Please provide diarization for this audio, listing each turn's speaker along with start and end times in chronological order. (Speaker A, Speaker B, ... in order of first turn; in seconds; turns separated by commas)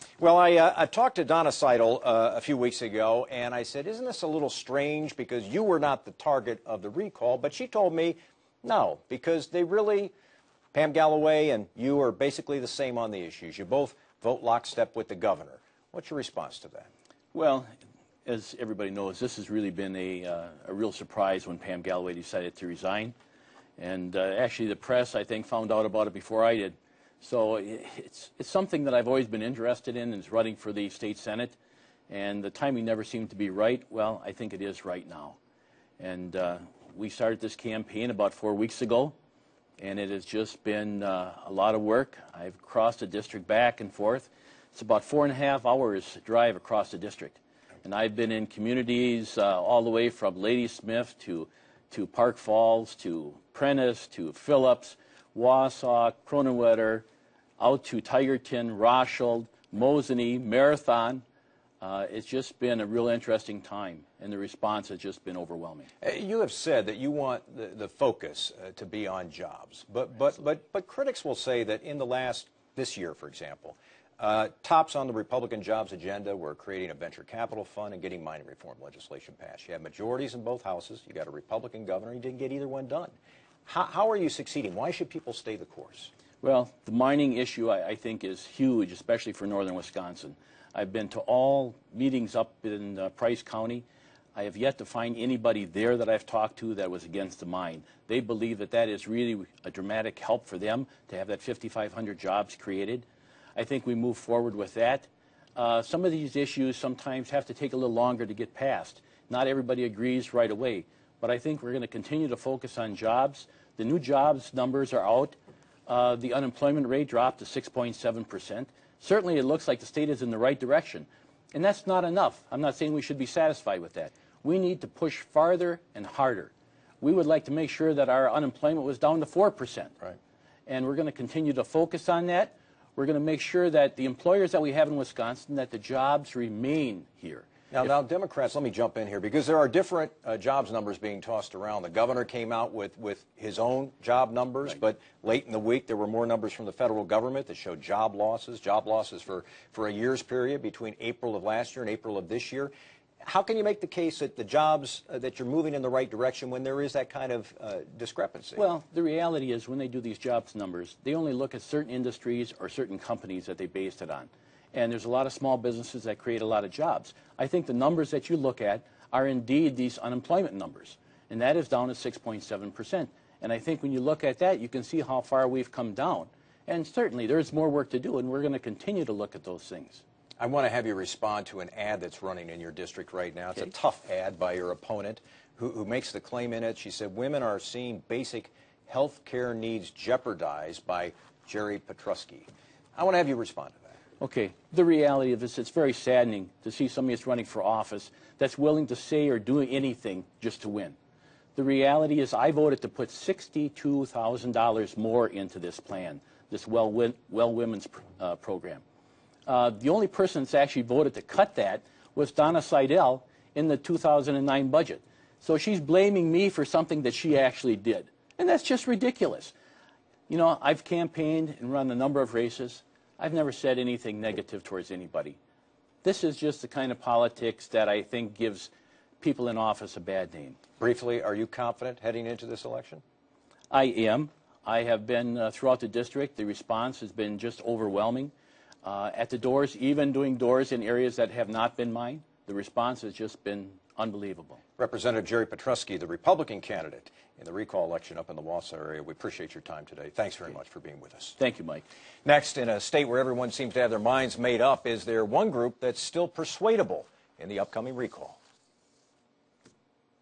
Speaker A: 0.2-10.1, Speaker A: 10.7-16.9, Speaker B: 17.3-17.7, Speaker B: 18.2-23.1, Speaker B: 23.8-31.6, Speaker B: 32.1-35.4, Speaker B: 36.0-39.1, Speaker B: 39.8-57.0, Speaker B: 57.6-61.2, Speaker B: 61.8-65.9, Speaker A: 66.0-83.1, Speaker A: 83.6-86.1, Speaker B: 86.4-115.3, Speaker B: 115.9-129.9, Speaker B: 130.7-137.5, Speaker A: 137.7-158.6, Speaker B: 158.6-180.0, Speaker A: 180.4-193.9, Speaker B: 194.2-200.9, Speaker B: 201.5-208.8, Speaker B: 209.4-219.5, Speaker B: 220.3-225.4, Speaker B: 226.0-230.6, Speaker A: 230.8-233.0, Speaker B: 233.7-238.3, Speaker B: 238.8-244.6, Speaker A: 244.8-251.3, Speaker B: 251.4-251.8, Speaker A: 252.2-258.4